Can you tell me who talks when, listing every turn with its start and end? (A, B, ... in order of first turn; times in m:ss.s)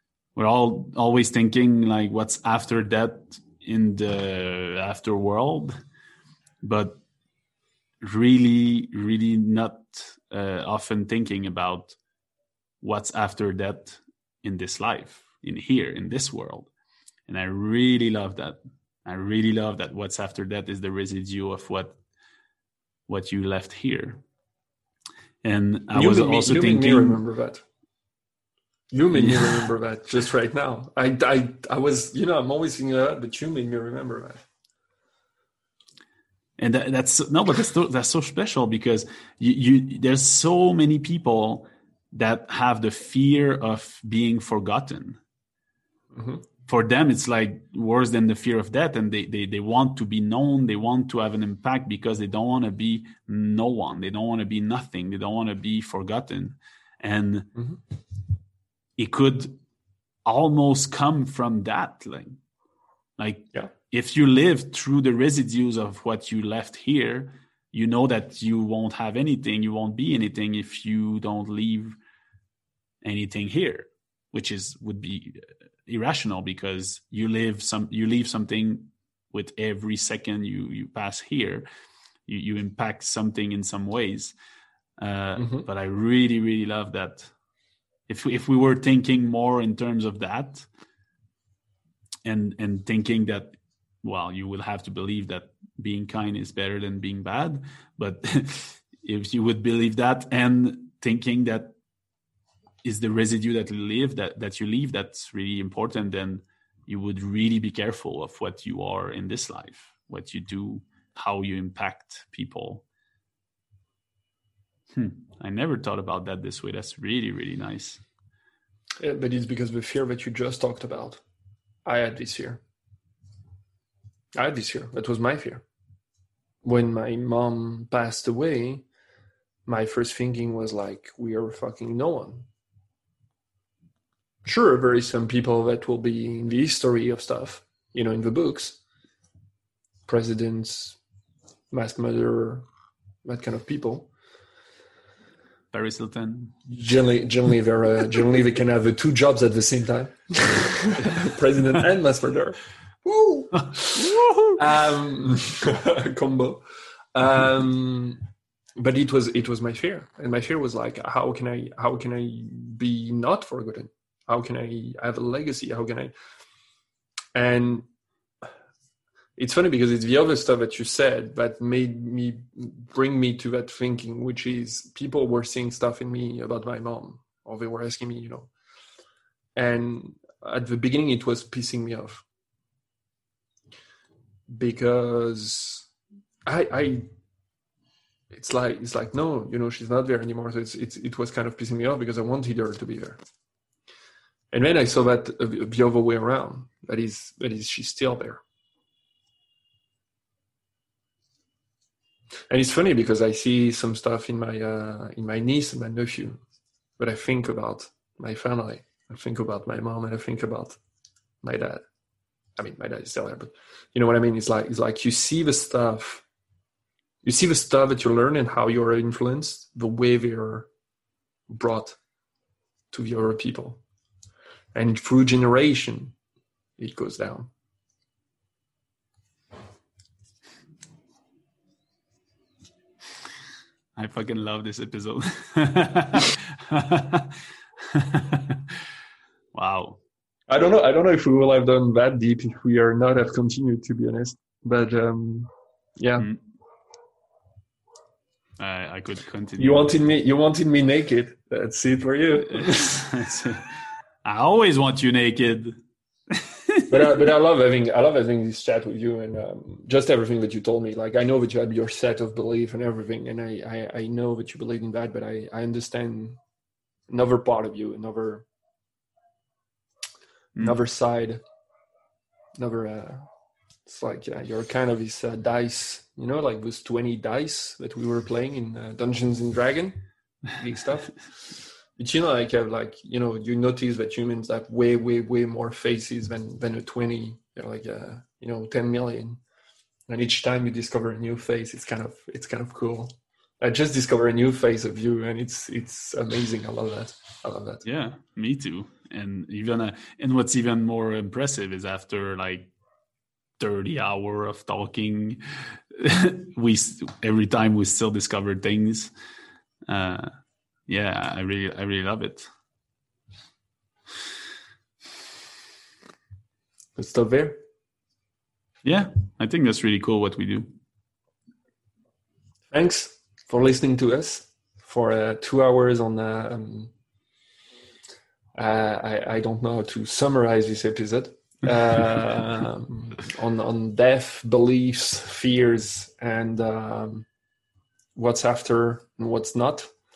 0:00.4-0:05.8 A
0:06.6-0:07.0 A
0:08.0-0:12.0 A
0:12.8-0:16.7 A
0:17.3-0:22.0 A
0:23.1-0:24.2 A
0:25.4-0:27.2 A
0:25.9-0:27.6 B
0:28.9-0:34.4 B
0:29.1-0:29.7 A
0:36.6-0:45.2 A
0:46.1-0:46.4 B
0:46.7-0:57.5 A
0:59.0-0:59.6 A
1:00.2-1:02.4 A
1:03.2-1:12.0 A
1:13.0-1:21.6 A
1:22.3-1:24.3 A
1:25.0-1:27.3 A
1:25.4-1:25.6 B
1:28.1-1:30.7 A
1:32.2-1:41.7 A
1:42.8-1:52.8 A
1:54.9-1:58.0 A
1:59.0-2:01.2 B
2:01.9-2:02.6 B
2:04.3-2:05.6 B
2:06.6-2:08.8 B
2:09.7-2:12.5 B
2:14.4-2:18.8 B
2:20.1-2:21.0 B
2:21.7-2:22.6 B
2:23.2-2:24.1 B
2:25.7-2:26.6 A
2:26.7-2:36.6 B
2:33.5-2:34.6 A
2:37.1-2:38.2 B
2:38.8-2:46.1 B
2:47.3-2:47.9 B
2:49.4-2:58.5 B
2:59.6-3:02.2 B
3:04.5-3:05.9 B
3:06.4-3:07.1 B
3:08.3-3:13.2 B
3:14.5-3:18.4 B
3:22.5-3:26.4 B
3:27.0-3:30.8 B
3:31.4-3:31.8 B
3:32.6-3:36.2 B
3:37.2-3:40.7 B
3:41.5-3:42.0 B
3:42.9-3:43.8 B
3:44.7-3:46.1 B
3:46.8-3:47.5 B
3:54.0-3:58.8 A
3:59.5-4:00.0 A
4:00.5-4:06.3 B
4:08.6-4:10.0 A
4:09.6-4:13.0 B
4:12.5-4:13.7 A
4:14.2-4:15.8 A
4:16.3-4:17.2 A
4:16.9-4:26.4 B
4:27.1-4:28.4 B
4:30.6-4:31.4 B
4:32.6-4:33.3 B
4:33.9-4:40.0 B
4:40.5-4:41.3 B
4:42.0-4:49.4 B
4:50.1-4:57.8 B
4:57.8-5:02.7 A
5:03.6-5:09.1 A
5:09.9-5:10.3 A
5:10.9-5:12.5 A
5:17.0-5:17.6 B
5:18.8-5:20.7 A
5:22.7-5:26.9 B
5:28.6-5:37.3 B
5:38.2-5:39.9 B